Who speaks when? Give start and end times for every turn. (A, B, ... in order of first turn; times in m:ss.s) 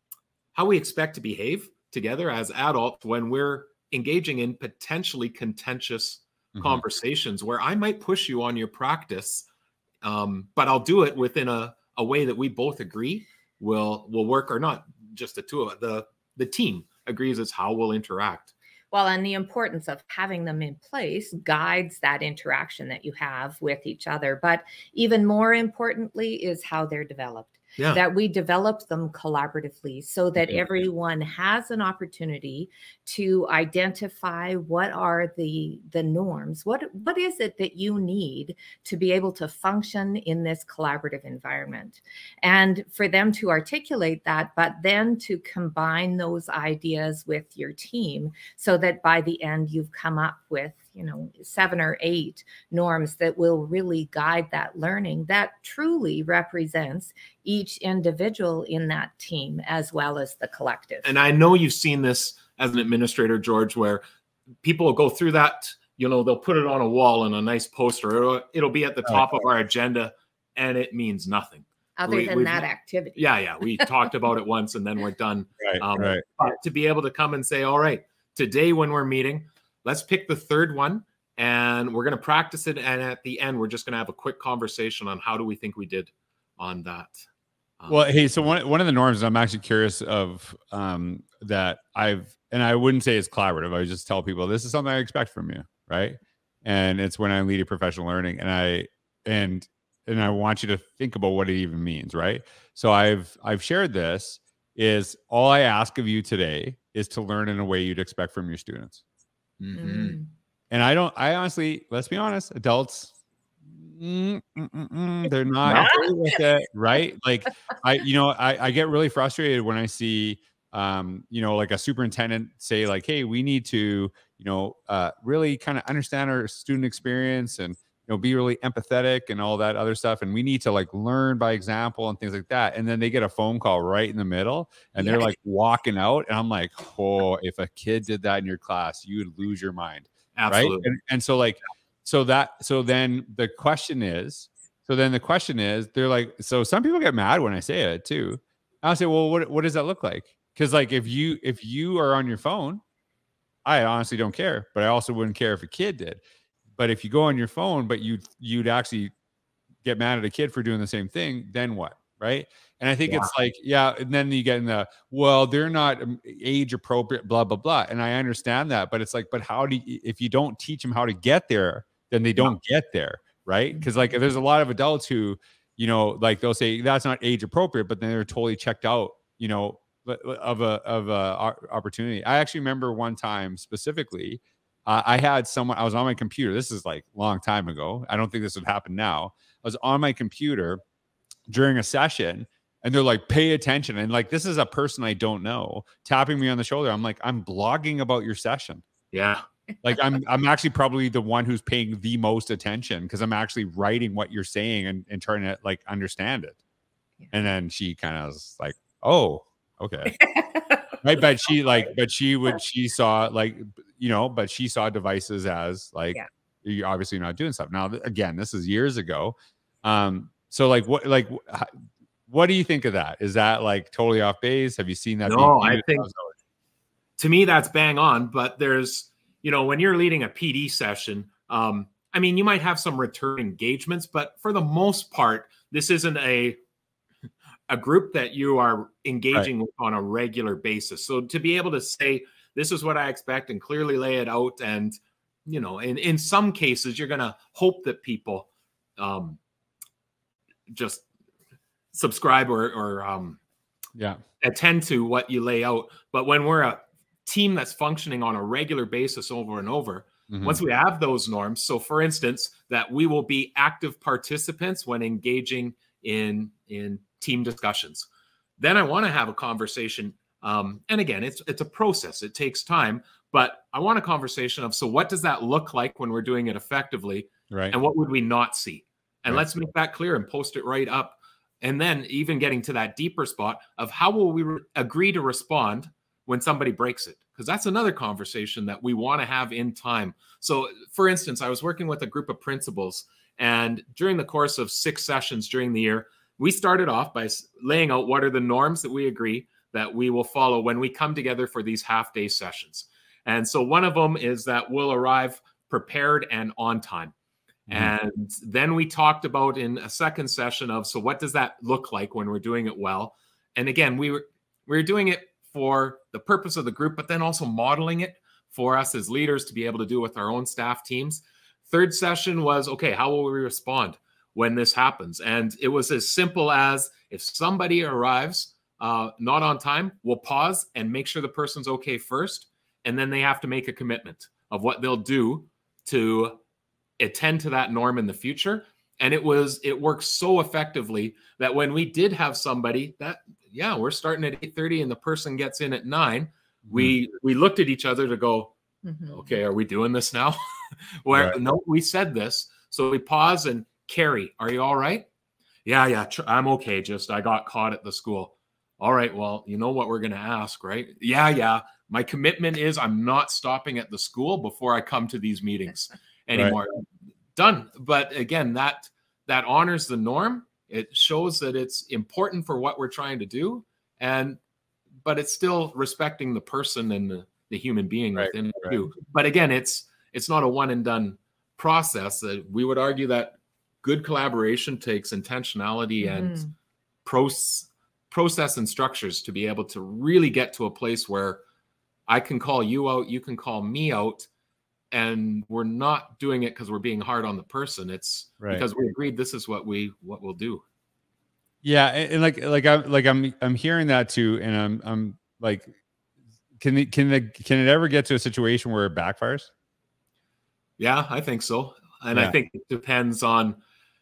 0:00.5-0:09.5 A
0:06.5-0:06.8 B
0:10.0-0:18.5 A
0:18.9-1:01.1 C
1:01.0-1:04.0 A
1:04.6-1:27.2 A
1:12.0-1:13.3 C
1:15.6-1:16.2 B
1:27.8-1:28.1 A
1:27.9-1:49.0 B
1:49.6-1:50.2 A
1:49.7-1:50.3 C
1:50.7-1:53.1 B
1:53.7-2:32.8 B
1:55.6-1:56.0 A
1:55.7-1:56.1 C
2:20.3-2:20.9 A
2:33.6-2:36.2 B
2:36.8-2:39.1 B
2:39.8-3:10.8 B
3:11.5-3:18.8 B
3:19.1-3:19.4 A
3:19.8-3:26.6 B
3:27.3-3:30.2 B
3:30.1-3:30.8 C
3:31.0-3:41.7 B
3:42.3-3:46.3 B
3:45.2-3:46.1 A
3:47.2-3:56.6 A
3:57.7-4:09.4 A
4:10.7-4:11.0 A
4:11.9-4:13.4 A
4:14.0-4:14.2 B
4:14.4-4:28.1 A
4:20.3-4:20.6 B
4:28.6-5:07.1 A
4:37.5-4:37.7 B
5:07.7-5:07.9 B
5:07.7-5:36.4 A
5:37.0-5:48.5 A
5:46.7-5:47.0 B
5:48.8-5:49.4 C
5:49.1-5:55.1 A
5:51.1-5:51.4 B
5:55.6-6:14.4 A
6:15.0-6:26.4 A
6:18.2-6:18.8 B
6:26.0-6:26.5 C
6:27.0-6:31.4 A
6:32.1-6:34.3 A
6:34.9-6:40.6 A
6:41.6-6:45.7 B
6:46.6-6:49.5 B
6:50.8-6:53.6 A